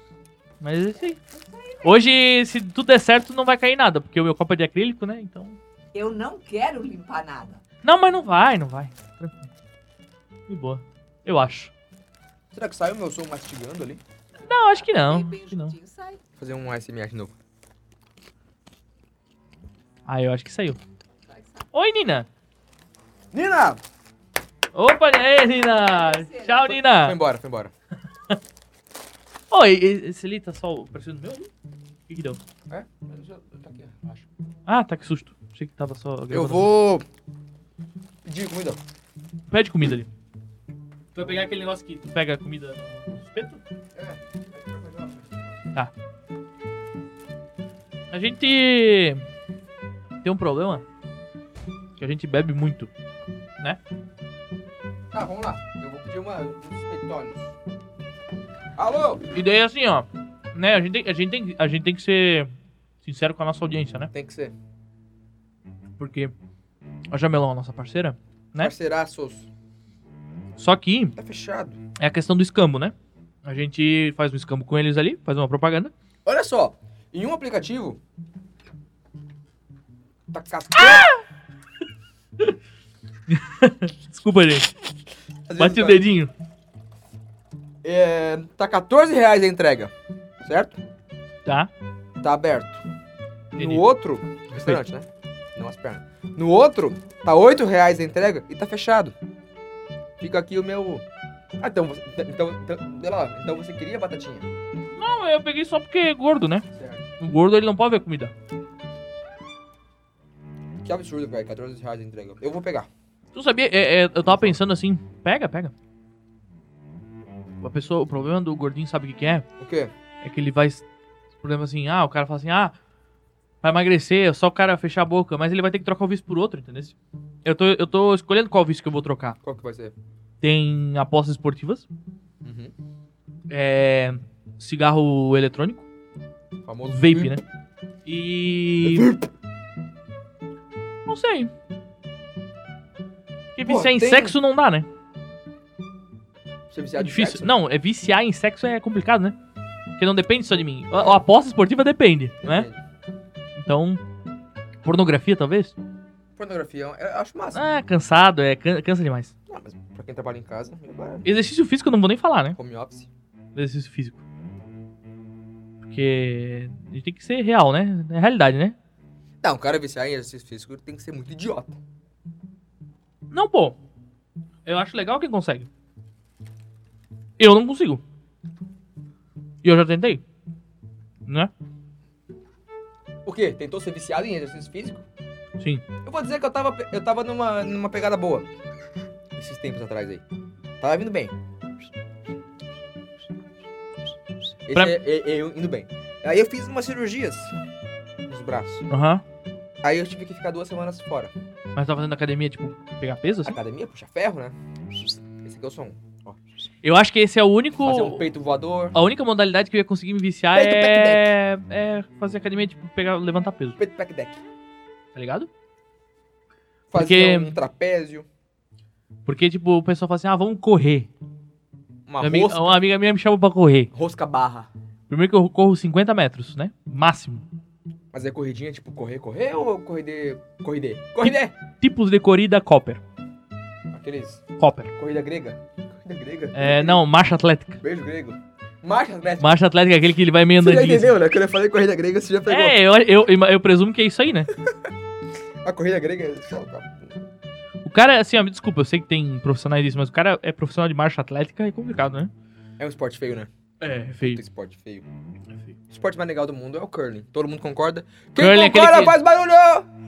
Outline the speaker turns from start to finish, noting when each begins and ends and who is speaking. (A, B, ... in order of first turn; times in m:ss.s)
0:00.6-0:01.2 A
0:01.1-0:02.0 B
0:01.8-0:05.6 A
0:05.9-0:07.6 B
0:07.8-0:09.5 A
0:10.5-0:11.7 A
0:12.5-0:14.0 C
0:14.4-0:16.2 B
0:14.4-0:15.7 A
0:16.4-0:17.3 C
0:20.0-0:20.8 A
0:21.3-0:21.7 B
0:21.7-0:22.3 A
0:23.3-0:23.8 C
0:24.7-0:27.2 A
0:25.6-0:26.8 B
0:26.8-0:27.7 C
0:29.5-0:31.5 A
0:32.1-0:32.4 A
0:32.7-0:34.3 C
0:34.7-0:36.7 A
0:36.3-0:37.0 C
0:38.2-0:38.8 C
0:39.5-0:40.1 A
0:41.1-0:43.6 A
0:43.9-0:45.5 C
0:48.1-0:49.2 A
0:50.2-0:50.8 A
0:52.0-0:52.9 A
0:55.1-0:57.5 C
0:58.8-0:59.2 C
0:59.3-1:02.5 A
1:03.0-1:04.1 A
1:04.1-1:04.5 C
1:06.0-1:06.3 A
1:07.1-1:08.7 A
1:08.6-1:09.5 C
1:10.6-1:11.1 A
1:11.2-1:11.8 C
1:12.0-1:12.9 A
1:13.4-1:15.9 A
1:16.2-1:18.0 C
1:20.3-1:21.1 C
1:20.8-1:21.2 A
1:23.3-1:24.7 A
1:25.5-1:26.0 C
1:25.6-1:26.3 A
1:27.8-1:30.8 C
1:32.2-1:32.8 C
1:33.5-1:39.1 C
1:33.5-1:33.8 A
1:34.5-1:34.8 A
1:40.2-1:41.0 C
1:41.6-1:44.5 C
1:45.0-1:46.6 A
1:46.7-1:47.0 C
1:47.2-1:48.3 A
1:50.8-1:52.9 C
1:53.3-1:55.7 A
1:54.2-1:54.6 C
1:57.6-1:59.4 A
1:59.6-1:59.9 C
2:00.2-2:00.8 A
2:01.4-2:02.8 A
2:03.6-2:09.4 A
2:09.4-2:09.9 C
2:10.4-2:11.8 A
2:12.4-2:12.7 C
2:13.5-2:15.8 A
2:16.6-2:17.4 C
2:16.9-2:17.4 A
2:18.0-2:19.1 A
2:18.8-2:19.3 C
2:21.0-2:21.5 A
2:23.5-2:24.9 A
2:23.6-2:24.4 C
2:26.7-2:27.5 C
2:27.0-2:29.4 A
2:30.0-2:32.7 A
2:30.9-2:31.2 C
2:32.4-2:32.8 C
2:33.6-2:34.0 A
2:34.8-2:35.8 A
2:36.4-2:37.6 C
2:37.5-2:39.3 A
2:39.5-2:41.2 C
2:41.2-2:42.6 A
2:42.6-2:43.1 C
2:43.5-2:44.2 A
2:45.8-2:48.8 A
2:49.4-2:51.8 C
2:53.3-2:53.8 A
2:54.6-2:55.7 A
2:57.4-2:58.0 A
2:59.6-3:00.2 A
3:01.2-3:01.5 A
3:03.2-3:05.0 C
3:05.6-3:05.8 A
3:06.0-3:08.5 C
3:09.4-3:10.2 C
3:10.8-3:11.3 C
3:14.6-3:17.5 C
3:18.3-3:18.9 C
3:18.9-3:19.2 A
3:19.8-3:21.3 C
3:21.8-3:23.6 A
3:23.4-3:26.4 C
3:26.8-3:28.2 A
3:27.8-3:29.0 C
3:28.9-3:33.8 A
3:30.5-3:31.3 C
3:33.8-3:34.4 C
3:35.1-3:35.5 A
3:36.9-3:38.3 C
3:36.9-3:37.5 A
3:39.2-3:41.1 A
3:42.1-3:42.7 C
3:42.2-3:43.9 A
3:43.9-3:44.7 C
3:45.1-3:47.4 A
3:48.1-3:51.5 C
3:51.2-3:53.0 A
3:53.9-3:54.4 C
3:54.6-3:54.9 A
3:55.0-3:57.0 C
3:56.5-3:57.8 A
3:57.8-3:59.6 C
3:59.4-4:01.2 A
4:00.6-4:02.8 C
4:02.5-4:04.5 A
4:05.6-4:07.2 C
4:07.8-4:12.3 A
4:12.8-4:13.5 C
4:13.8-4:14.4 A
4:14.2-4:15.0 C
4:15.9-4:19.9 C
4:18.4-4:19.2 A